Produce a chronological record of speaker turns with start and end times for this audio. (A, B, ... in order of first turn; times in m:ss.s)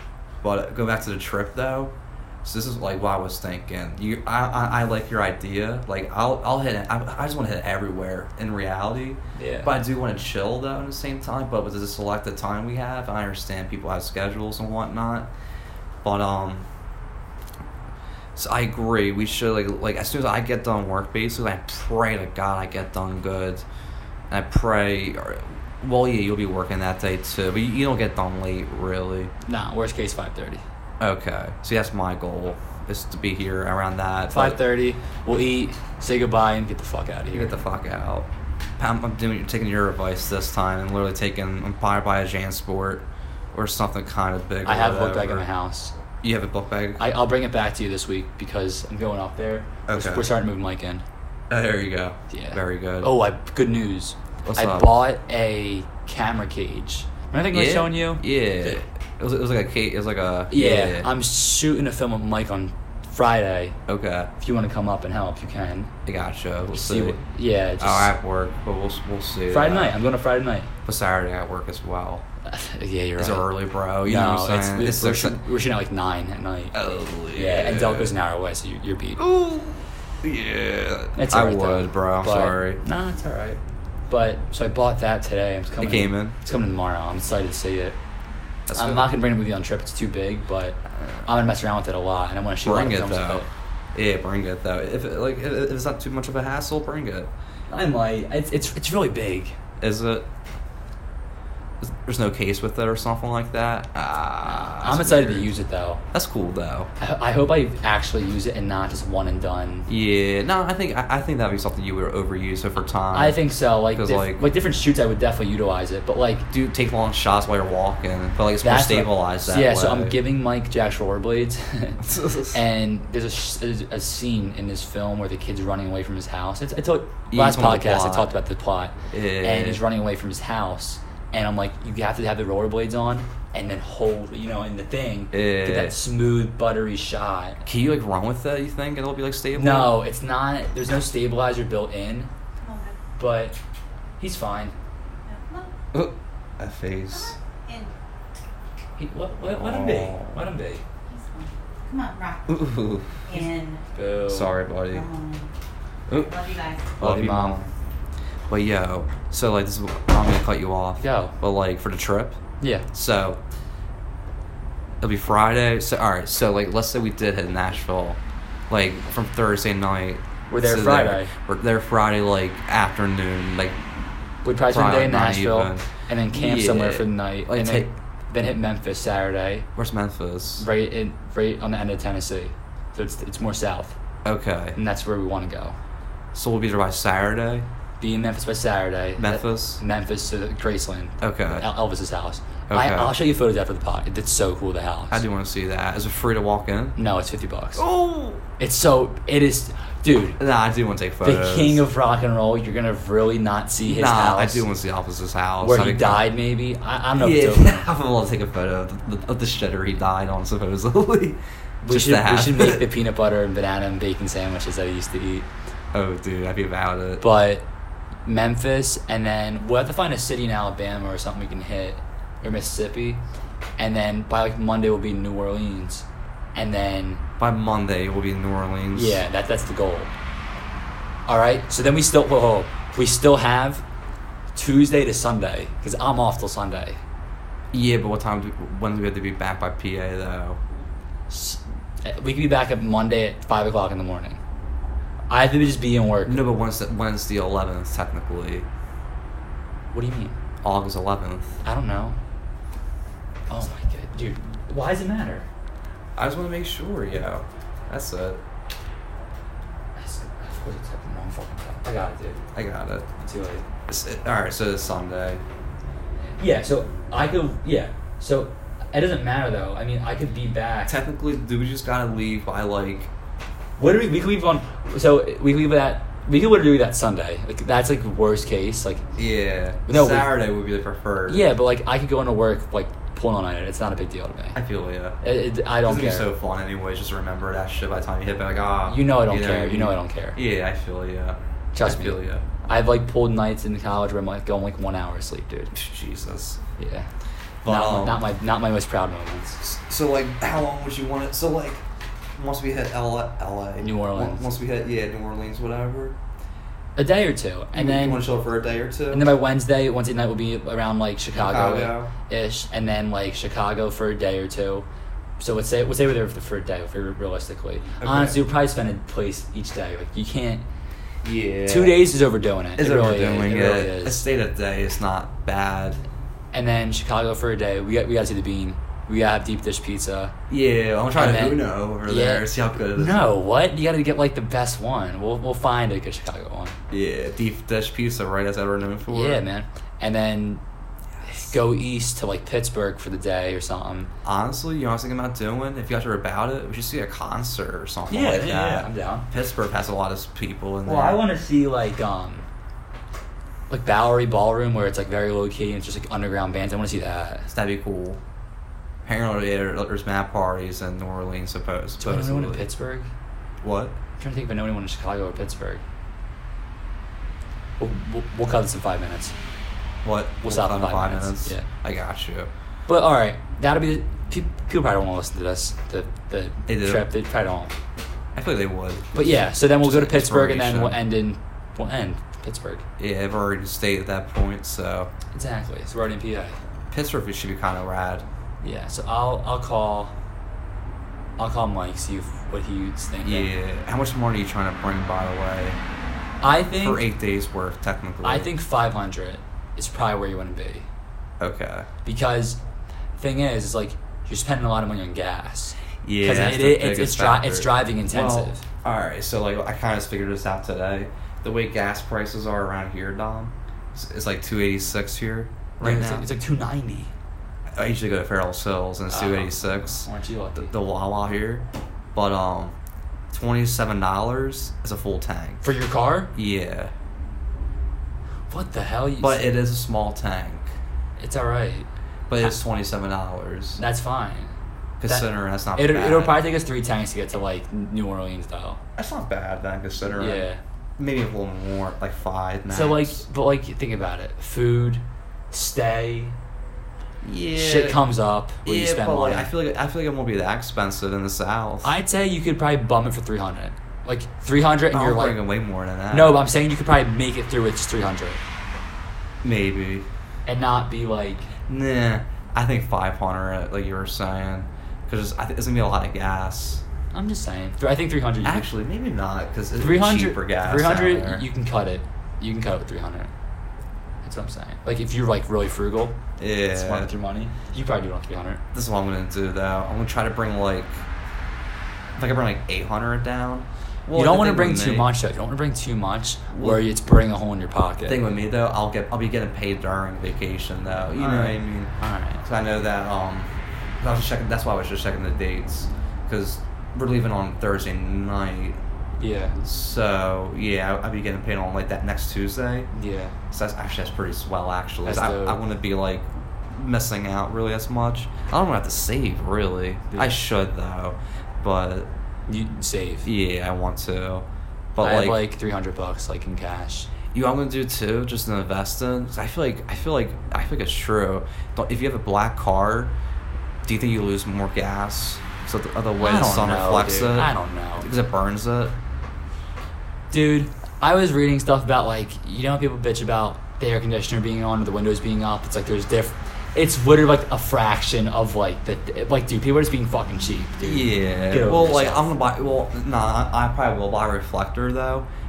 0:00.4-0:15.3 A
0:09.4-0:09.7 B
0:16.0-0:16.6 A
0:18.4-0:23.6 A
0:24.3-0:29.3 A
0:29.4-0:30.6 B
0:31.0-0:34.6 A
0:34.3-0:37.6 B
0:37.3-0:45.4 A
0:44.6-0:45.9 B
0:46.2-0:47.0 A
0:47.0-0:51.0 B
0:49.9-0:50.3 A
0:51.5-0:53.1 A
0:52.3-0:58.8 B
0:54.4-0:55.0 A
0:57.5-1:01.1 A
1:00.5-1:03.8 B
1:03.9-1:04.3 A
1:04.4-1:05.9 B
1:06.0-1:07.2 A
1:06.7-1:08.1 B
1:07.8-1:10.0 A
1:09.5-1:10.7 B
1:10.8-1:12.2 A
1:12.4-1:13.5 B
1:13.2-1:15.4 A
1:14.0-1:19.2 B
1:16.7-1:18.1 A
1:19.2-1:22.8 A
1:21.2-1:28.0 B
1:25.8-1:26.4 A
1:28.7-1:29.1 A
1:28.7-1:33.5 B
1:32.6-1:37.3 A
1:37.7-1:39.6 B
1:39.8-1:40.3 A
1:41.8-1:45.5 A
1:44.8-1:46.0 B
1:46.1-1:46.9 A
1:47.0-1:49.9 B
1:49.9-1:53.4 A
1:53.1-1:56.5 B
1:53.9-1:54.5 A
1:56.5-2:00.2 A
1:58.6-2:17.6 B
2:02.0-2:02.6 A
2:07.3-2:08.3 A
2:09.1-2:09.8 A
2:15.3-2:16.0 A
2:17.6-2:20.0 A
2:19.5-2:22.3 B
2:22.6-2:23.0 C
2:23.2-2:23.6 B
2:24.2-2:24.7 B
2:25.2-2:25.7 C
2:25.9-2:27.4 A
2:27.1-2:27.9 C
2:29.0-2:30.8 B
2:29.4-2:30.4 A
2:31.1-2:32.6 C
2:32.5-2:33.2 A
2:33.2-2:33.8 C
2:33.9-2:34.5 B
2:34.3-2:35.1 A
2:34.9-2:35.5 C
2:36.1-2:37.7 A
2:36.1-2:36.9 C
2:37.0-2:37.7 B
2:38.5-2:42.4 A
2:41.0-2:41.3 B
2:42.6-2:42.8 B
2:42.9-2:43.4 A
2:45.0-2:53.8 A
2:50.5-2:51.3 B
2:54.4-2:59.7 B
2:54.7-2:57.9 A
2:59.8-3:00.6 A
3:00.6-3:04.0 B
3:04.2-3:04.8 A
3:04.8-3:05.8 B
3:06.3-3:07.7 A
3:08.0-3:15.2 B
3:09.2-3:09.8 A
3:11.2-3:11.6 A
3:12.7-3:13.1 A
3:15.1-3:17.0 A
3:17.0-3:17.8 B
3:17.8-3:18.4 A
3:18.6-3:20.4 B
3:20.4-3:21.8 A
3:21.2-3:24.6 B
3:23.8-3:26.3 A
3:25.6-3:27.9 B
3:27.2-3:32.8 A
3:31.8-3:35.5 B
3:35.9-3:37.2 A
3:37.2-3:37.6 B
3:38.2-3:43.2 B
3:43.8-3:47.2 B
3:47.4-3:49.2 A
3:48.9-3:50.1 B
3:51.3-3:53.8 B
3:54.5-3:57.0 B
3:57.7-4:00.6 A
4:01.3-4:04.4 B
4:05.3-4:06.4 B
4:06.2-4:08.7 A
4:09.9-4:10.4 B
4:10.6-4:11.6 A
4:11.6-4:12.2 B
4:13.5-4:15.5 B
4:16.2-4:18.4 A
4:20.0-4:22.4 B
4:22.5-4:23.1 A
4:23.2-4:23.6 B
4:23.9-4:25.4 A
4:26.4-4:31.0 B
4:30.9-4:33.1 A
4:33.8-4:39.0 B
4:39.2-4:41.5 A
4:39.8-4:40.3 B
4:41.3-4:44.6 B
4:44.5-4:45.2 A
4:45.2-4:46.3 B
4:45.8-4:52.4 A
4:48.9-4:50.4 B
4:51.7-4:55.7 B
4:55.7-4:56.6 A
4:56.8-4:57.1 B
4:57.6-4:58.2 A
4:57.6-4:59.6 B
4:59.6-5:01.8 A
5:02.4-5:06.2 A
5:03.8-5:04.4 B
5:07.0-5:08.2 B
5:07.7-5:09.3 A
5:09.1-5:14.8 B
5:11.3-5:12.1 A
5:15.4-5:20.6 B
5:18.0-5:18.4 A
5:21.2-5:22.0 A
5:21.7-5:24.2 B
5:22.8-5:26.0 A
5:26.5-5:30.3 B
5:30.5-5:33.3 A
5:31.2-5:36.8 B
5:36.9-5:39.4 A
5:39.1-5:40.6 B
5:41.2-5:44.1 B
5:44.2-5:51.2 A
5:48.1-5:49.3 B
5:50.8-5:52.5 B
5:53.7-5:57.5 B
5:57.5-5:58.2 A
5:59.0-6:02.7 A
6:02.0-6:03.1 B
6:03.6-6:04.0 A
6:04.2-6:05.8 B
6:07.8-6:09.4 B
6:10.0-6:12.5 A
6:10.4-6:11.7 B
6:12.9-6:17.7 B
6:16.7-6:17.1 A
6:18.3-6:19.2 A
6:19.1-6:22.8 B
6:19.8-6:21.0 A
6:23.0-6:25.1 A
6:25.3-6:26.6 B
6:26.9-6:28.2 A
6:28.6-6:30.1 B
6:31.4-6:33.5 B
6:33.2-6:35.8 A
6:36.4-6:37.0 B
6:36.8-6:38.5 A
6:38.2-6:40.9 B
6:41.4-6:41.9 A
6:42.0-6:42.6 B
6:43.2-6:48.6 B
6:46.0-6:56.2 A
6:55.8-6:57.1 B
6:57.7-7:02.7 A
6:59.1-7:00.7 B
7:03.3-7:05.6 A
7:05.6-7:06.3 B
7:06.3-7:06.9 A
7:08.5-7:09.4 B
7:09.2-7:10.7 A
7:11.2-7:11.9 B
7:12.3-7:13.8 A
7:13.8-7:14.5 B
7:15.0-7:16.4 A
7:15.1-7:18.8 B
7:19.0-7:20.5 A
7:20.2-7:20.6 B
7:21.0-7:23.2 A
7:22.7-7:26.4 B
7:27.2-7:28.0 A
7:27.5-7:29.5 B
7:28.6-7:32.0 A
7:31.8-7:35.4 B
7:34.9-7:36.4 A
7:36.1-7:38.4 B
7:39.4-7:40.1 A
7:40.4-7:41.5 B
7:41.7-7:46.8 A
7:47.1-7:48.7 B
7:48.4-7:51.5 A
7:49.8-7:53.3 B
7:54.2-7:56.2 B
7:56.4-7:57.1 A
7:56.7-7:58.6 B
7:58.7-8:01.0 A
8:02.2-8:05.1 A
8:04.1-8:08.2 B
8:06.5-8:06.8 A
8:08.0-8:11.9 A
8:11.1-8:12.4 B
8:12.4-8:18.8 A
8:19.2-8:19.6 B
8:19.6-8:22.9 A
8:22.9-8:23.3 B
8:23.5-8:32.1 A
8:25.0-8:25.6 B
8:30.1-8:30.4 B
8:32.5-8:33.3 B
8:33.2-8:35.4 A
8:35.0-8:37.1 B
8:37.3-8:43.1 A
8:43.8-8:48.9 A
8:46.2-8:48.1 B
8:50.3-9:02.3 B
9:00.8-9:05.3 A